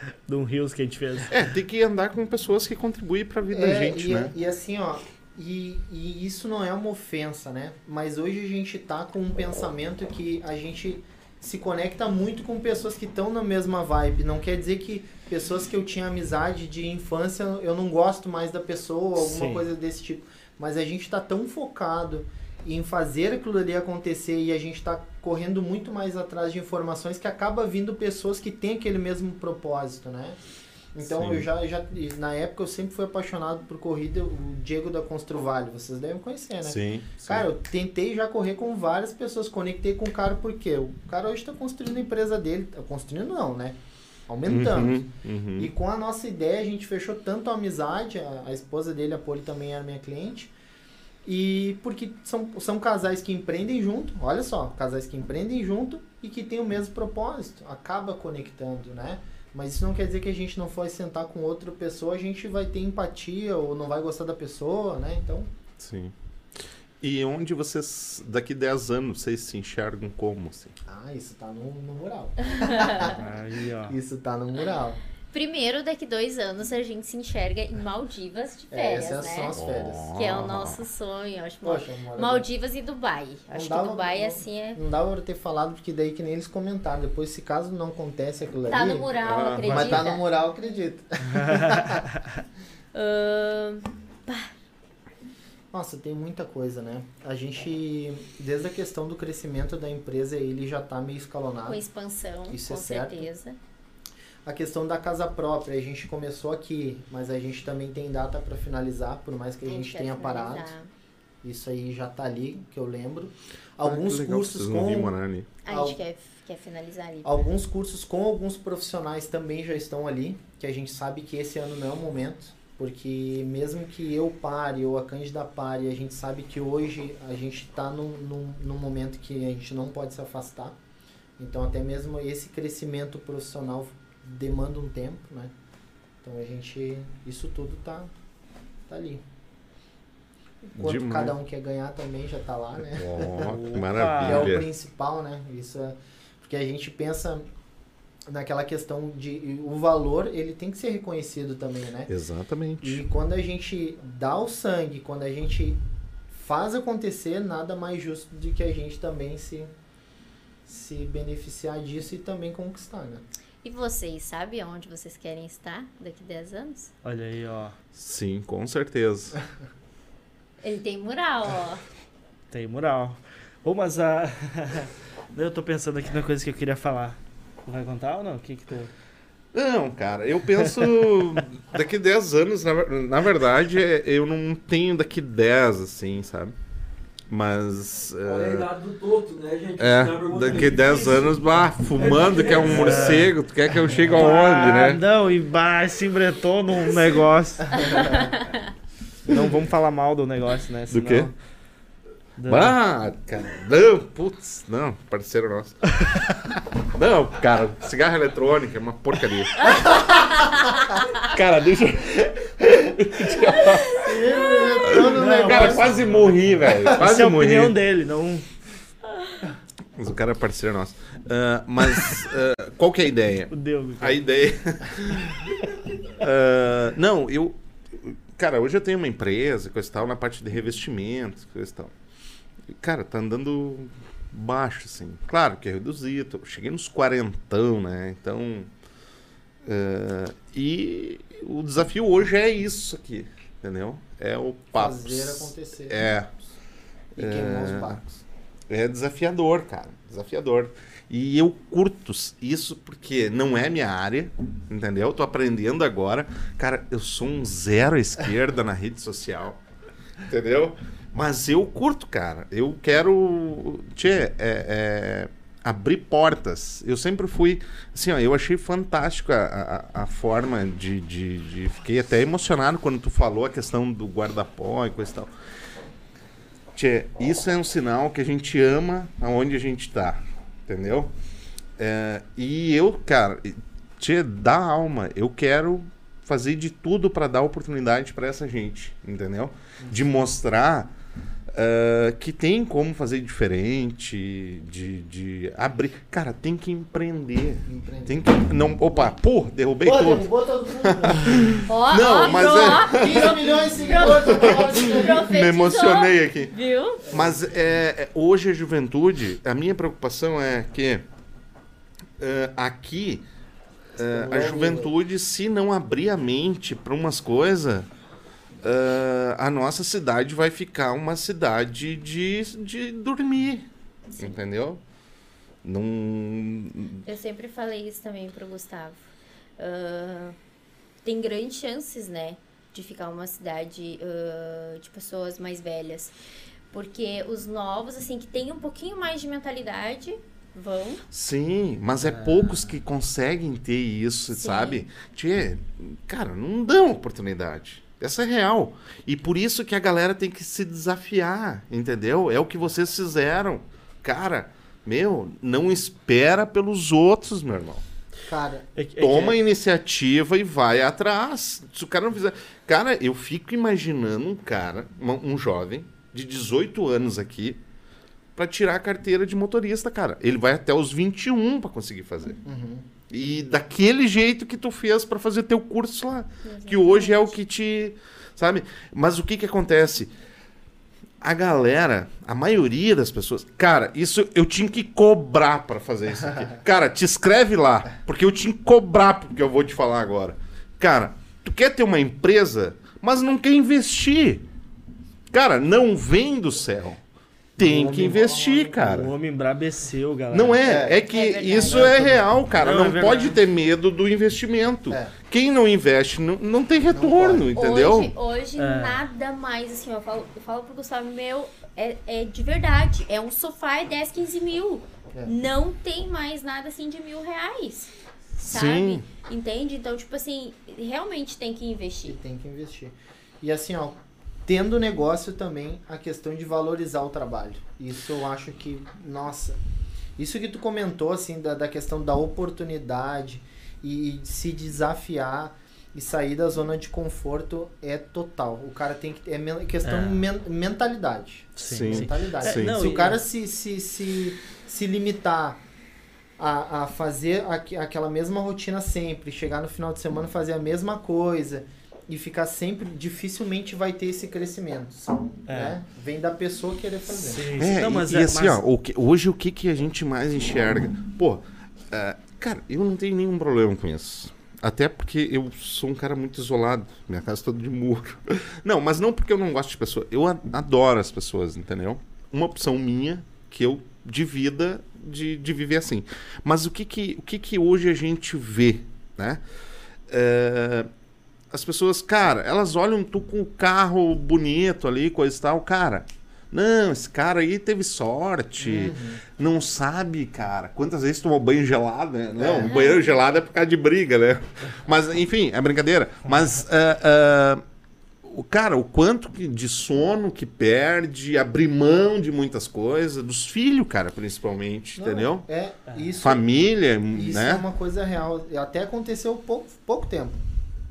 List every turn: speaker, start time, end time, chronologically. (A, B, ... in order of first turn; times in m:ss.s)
0:00.3-0:01.3 A
0:01.3-0:04.3 B
0:03.5-0:30.4 C
0:19.2-0:19.7 A
0:30.9-0:43.8 C
0:31.0-0:31.4 B
0:36.6-0:37.5 B
0:44.3-0:45.0 C
0:44.5-0:45.7 B
0:45.6-0:50.5 C
0:51.2-1:05.5 C
1:05.8-1:10.7 B
1:10.8-1:13.2 C
1:12.6-1:13.1 D
1:13.0-1:14.0 A
1:13.9-1:15.0 C
1:15.3-1:19.6 D
1:18.7-1:20.1 C
1:19.5-1:20.8 B
1:20.1-1:24.8 D
1:21.6-1:22.5 C
1:23.5-1:29.1 C
1:28.7-1:30.2 D
1:29.2-1:30.0 B
1:29.6-1:32.0 C
1:31.4-1:31.9 A
1:32.9-1:34.5 D
1:35.7-1:41.8 C
1:41.6-1:43.6 D
1:42.5-1:43.3 C
1:44.4-1:50.7 C
1:49.6-1:50.9 D
1:51.4-1:55.1 C
1:53.8-1:55.5 B
1:55.6-1:57.3 D
1:55.7-1:56.0 C
1:57.2-2:10.7 C
2:11.4-2:15.5 C
2:16.2-2:18.1 C
2:18.9-2:19.2 C
2:20.7-2:23.5 C
2:20.8-2:21.3 B
2:22.8-2:24.7 B
2:23.4-2:24.5 A
2:24.2-2:27.5 C
2:28.3-2:32.1 C
2:32.1-2:33.0 B
2:32.8-2:39.7 C
2:40.6-2:43.2 C
2:43.6-2:46.9 D
2:47.0-2:47.7 A
2:47.9-2:49.4 B
2:50.6-2:51.8 D
2:52.5-2:58.9 A
2:59.5-3:06.5 B
3:07.3-3:08.7 B
3:08.2-3:11.4 E
3:09.8-3:15.0 B
3:11.9-3:13.3 E
3:12.5-3:13.3 A
3:13.9-3:18.3 A
3:17.9-3:18.5 D
3:19.2-3:21.3 A
3:20.9-3:21.3 B
3:22.4-3:22.7 A
3:22.4-3:25.9 B
3:26.9-3:30.2 B
3:31.1-3:34.0 B
3:33.6-3:34.6 D
3:33.9-3:36.0 C
3:34.7-3:37.8 B
3:35.1-3:38.5 A
3:39.9-3:51.9 B
3:43.5-3:44.2 A
3:52.7-3:58.7 B
3:59.6-4:06.3 B
4:04.7-4:06.1 C
4:07.2-4:08.0 C
4:07.2-4:19.6 B
4:20.2-4:35.3 B
4:36.7-4:41.1 B
4:41.8-4:50.9 B
4:51.5-5:00.3 B
4:57.6-4:58.3 C
4:59.8-5:01.6 C
5:00.8-5:06.5 B
5:01.6-5:07.0 D
5:02.3-5:05.3 C
5:07.1-5:07.4 C
5:07.1-5:11.0 B
5:12.2-5:13.2 B
5:14.0-5:17.9 B
5:14.0-5:14.9 C
5:18.6-5:23.7 B
5:24.2-5:24.8 B
5:25.6-5:27.0 B
5:27.0-5:29.0 D
5:29.6-5:30.4 D
5:31.0-5:36.1 D
5:36.7-5:41.0 D
5:41.1-5:57.8 B
5:44.3-5:44.8 D
5:58.3-5:58.6 C
5:58.7-5:59.4 A
5:59.0-6:07.6 B
6:08.4-6:12.4 B
6:12.4-6:12.8 C
6:13.1-6:20.1 B
6:16.4-6:17.3 D
6:21.2-6:34.4 B
6:35.3-6:37.0 B
6:37.6-6:39.1 B
6:37.6-6:39.0 C
6:37.8-6:38.1 A
6:38.7-6:40.6 A
6:40.3-6:48.1 B
6:40.6-6:41.0 C
6:41.0-6:42.0 D
6:41.6-6:42.2 C
6:42.5-6:43.4 A
6:46.9-6:47.5 C
6:47.5-6:57.9 D
6:48.6-6:49.1 A
6:58.4-6:59.0 B
6:58.5-7:02.2 D
7:02.0-7:09.6 C
7:10.2-7:25.6 C
7:19.8-7:20.3 A
7:21.6-7:23.2 A
7:21.6-7:22.7 B
7:26.4-7:37.5 C
7:35.5-7:35.8 A
7:37.1-7:38.6 A
7:37.5-7:59.4 B
8:00.1-8:00.9 B
8:01.5-8:17.6 B
8:08.6-8:09.2 C
8:12.4-8:12.8 C
8:12.6-8:13.0 D
8:18.2-8:25.4 B
8:25.0-8:26.4 C
8:26.2-8:27.6 B
8:27.1-8:30.4 C